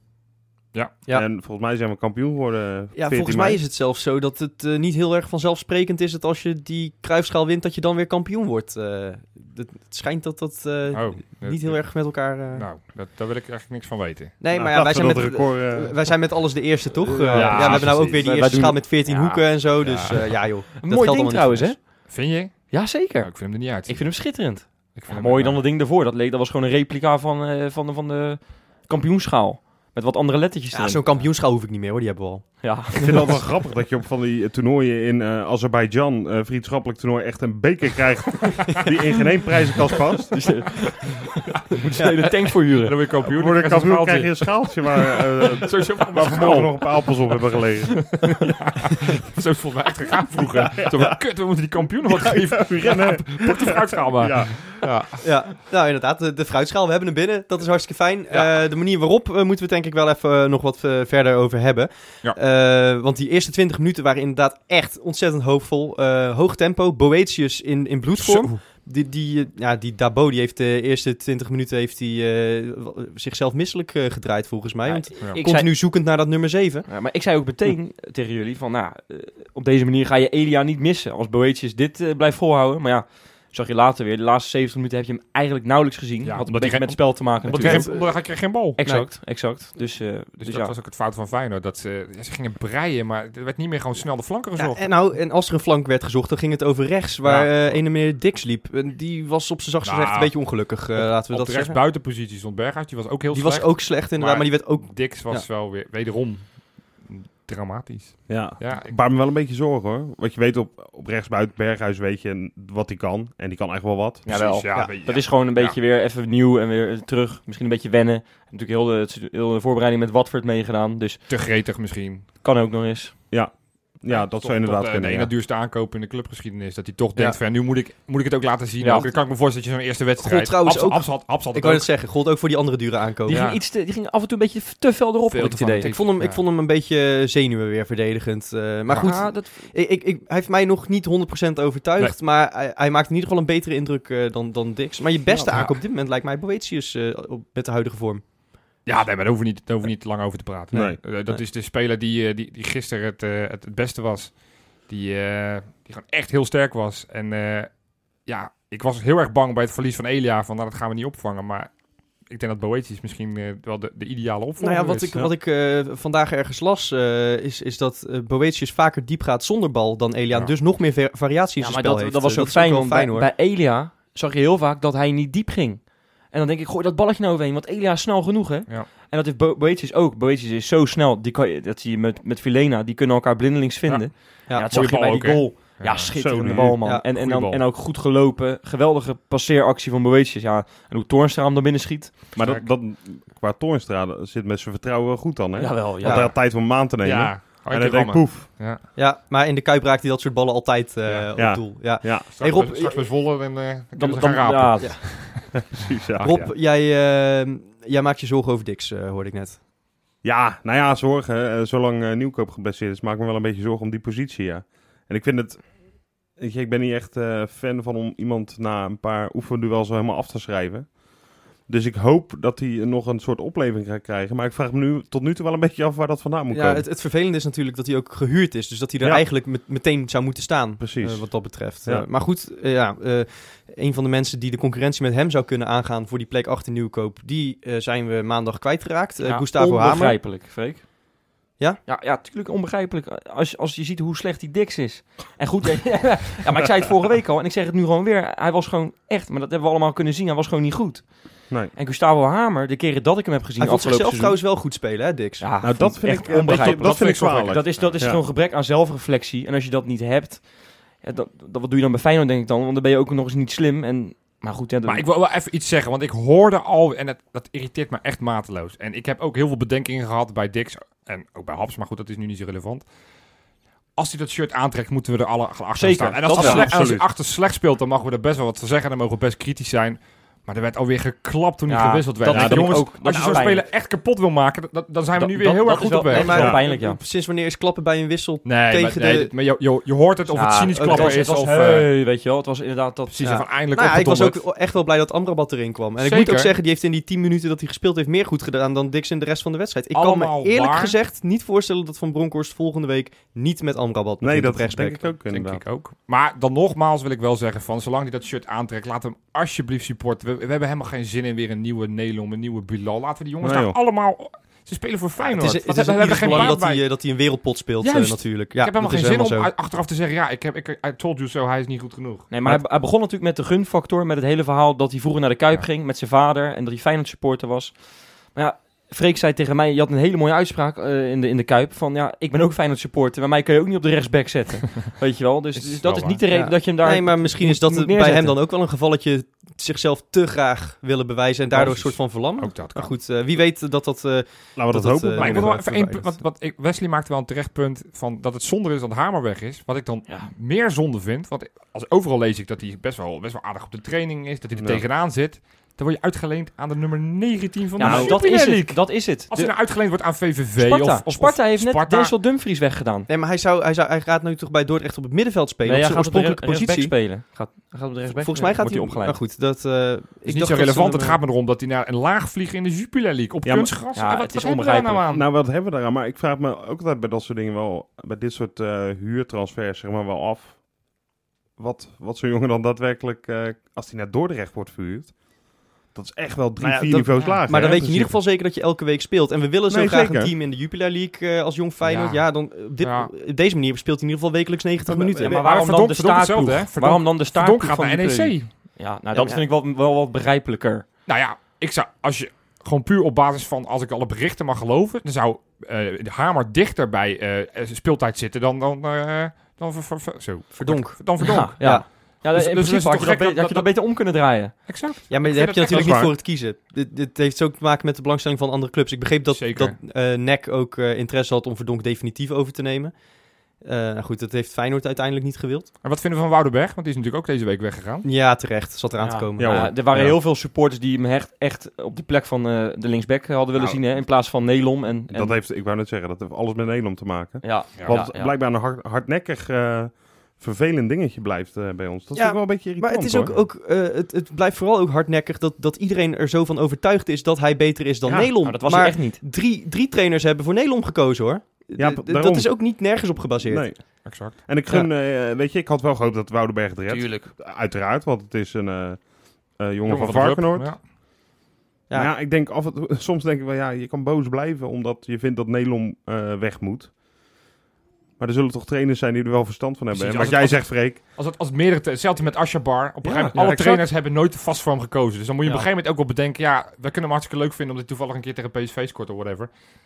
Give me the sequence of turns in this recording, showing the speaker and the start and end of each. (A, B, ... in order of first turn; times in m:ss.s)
0:01.1-0:03.6 A
0:02.9-0:12.7 B
0:10.9-0:14.3 C
0:14.4-0:21.8 B
0:14.5-0:16.0 A
0:16.9-0:19.6 D
0:17.3-0:18.2 C
0:19.8-0:20.2 C
0:20.8-0:21.9 D
0:22.1-0:24.4 C
0:22.7-0:31.2 D
0:24.9-0:25.6 C
0:30.7-0:33.1 B
0:32.6-0:33.5 D
0:33.0-0:40.7 A
0:40.3-0:43.1 D
0:42.0-0:42.5 B
0:42.8-0:44.6 C
0:43.3-0:48.2 A
0:45.5-0:47.6 C
0:48.2-0:55.2 C
0:50.7-0:51.2 A
0:52.0-0:54.7 A
0:55.2-1:16.9 B
0:58.3-0:58.6 C
1:14.9-1:15.7 D
1:16.9-1:30.7 D
1:26.2-1:28.8 C
1:27.4-1:28.2 B
1:28.8-1:29.1 B
1:30.4-1:34.9 C
1:34.6-1:41.8 B
1:37.2-1:37.8 C
1:39.8-1:49.0 C
1:43.3-1:45.5 B
1:48.3-1:54.3 A
1:54.2-2:01.2 D
1:54.3-1:55.8 C
2:01.3-2:02.3 C
2:02.4-2:03.2 D
2:03.3-2:05.3 A
2:04.1-2:11.9 C
2:07.2-2:07.4 B
2:08.8-2:09.1 D
2:10.2-2:13.4 B
2:13.2-2:15.9 D
2:13.3-2:13.6 C
2:15.3-2:16.4 C
2:15.8-2:28.2 B
2:18.9-2:19.7 D
2:25.3-2:25.6 A
2:25.5-2:25.8 C
2:28.8-2:45.2 C
2:30.7-2:31.0 A
2:44.6-2:53.3 B
2:51.6-3:12.4 D
3:03.9-3:06.5 C
3:04.5-3:04.7 B
3:06.1-3:06.8 A
3:07.1-3:07.6 C
3:12.3-3:18.5 A
3:12.4-3:12.7 C
3:15.6-3:16.3 D
3:16.0-3:16.3 B
3:17.0-3:18.8 C
3:18.9-3:23.1 B
3:21.4-3:22.3 A
3:22.3-3:26.5 C
3:23.9-3:25.0 D
3:24.8-3:25.5 B
3:25.7-3:26.4 A
3:26.2-3:29.6 B
3:30.2-3:41.0 A
3:41.6-3:46.9 A
3:46.5-4:00.2 B
3:50.8-3:52.1 A
3:59.2-4:00.8 D
4:01.9-4:14.4 D
4:13.6-4:15.5 B
4:15.4-4:25.0 D
4:15.6-4:18.2 A
4:16.3-4:18.0 C
4:24.9-4:32.9 C
4:33.9-4:46.4 C
4:35.8-4:36.7 D
4:36.4-4:37.1 A
4:41.7-4:43.7 D
4:42.3-4:42.9 A
4:45.2-4:47.0 D
4:46.1-4:49.3 B
4:46.3-4:46.6 A
4:48.4-4:51.9 C
4:50.3-4:53.2 D
4:50.6-4:51.2 B
4:53.1-4:54.4 C
4:53.2-5:05.1 B
4:56.0-4:56.5 C
4:59.9-5:01.0 C
5:04.2-5:05.6 A
5:05.3-5:16.9 C
5:13.4-5:13.8 A
5:15.2-5:19.5 B
5:16.1-5:16.6 D
5:17.8-5:22.3 C
5:22.3-5:38.4 D
5:35.6-5:36.2 C
5:36.3-5:46.1 B
5:41.5-5:43.0 C
5:44.6-5:45.6 A
5:45.2-6:02.1 C
5:50.1-5:50.3 D
5:54.6-5:54.8 A
5:57.8-5:59.6 D
5:57.8-5:58.2 A
6:00.6-6:03.1 D
6:03.1-6:07.0 B
6:05.6-6:09.2 D
6:08.2-6:11.2 B
6:10.2-6:15.3 C
6:13.4-6:13.8 A
6:13.9-6:15.0 D
6:15.1-6:20.6 A
6:21.6-6:25.2 A
6:25.8-6:28.2 A
6:26.6-6:35.4 B
6:27.2-6:27.4 C
6:29.7-6:30.3 A
6:31.9-6:32.2 C
6:32.8-6:33.1 C
6:34.9-6:35.4 A
6:35.2-6:40.9 D
6:35.3-6:38.5 C
6:39.1-6:39.4 B
6:41.0-6:53.8 C
6:50.5-6:51.9 B
6:51.2-6:54.7 D
6:54.7-6:56.1 C
6:55.1-7:03.0 B
6:59.3-6:59.8 C
7:03.6-7:05.7 B
7:05.8-7:08.0 C
7:08.0-7:09.7 B
7:09.0-7:15.4 D
7:09.4-7:10.2 A
7:15.1-7:23.4 A
7:17.4-7:18.3 D
7:22.1-7:33.7 B
7:28.0-7:28.3 A
7:28.4-7:29.2 D
7:31.8-7:32.8 A
7:33.4-7:40.8 A
7:34.0-7:34.4 C
7:36.9-7:37.3 D
7:39.9-7:40.8 C
7:41.9-7:42.1 B
7:41.9-7:47.0 A
7:48.2-7:51.0 A
7:49.9-7:59.5 C
7:53.3-7:53.9 A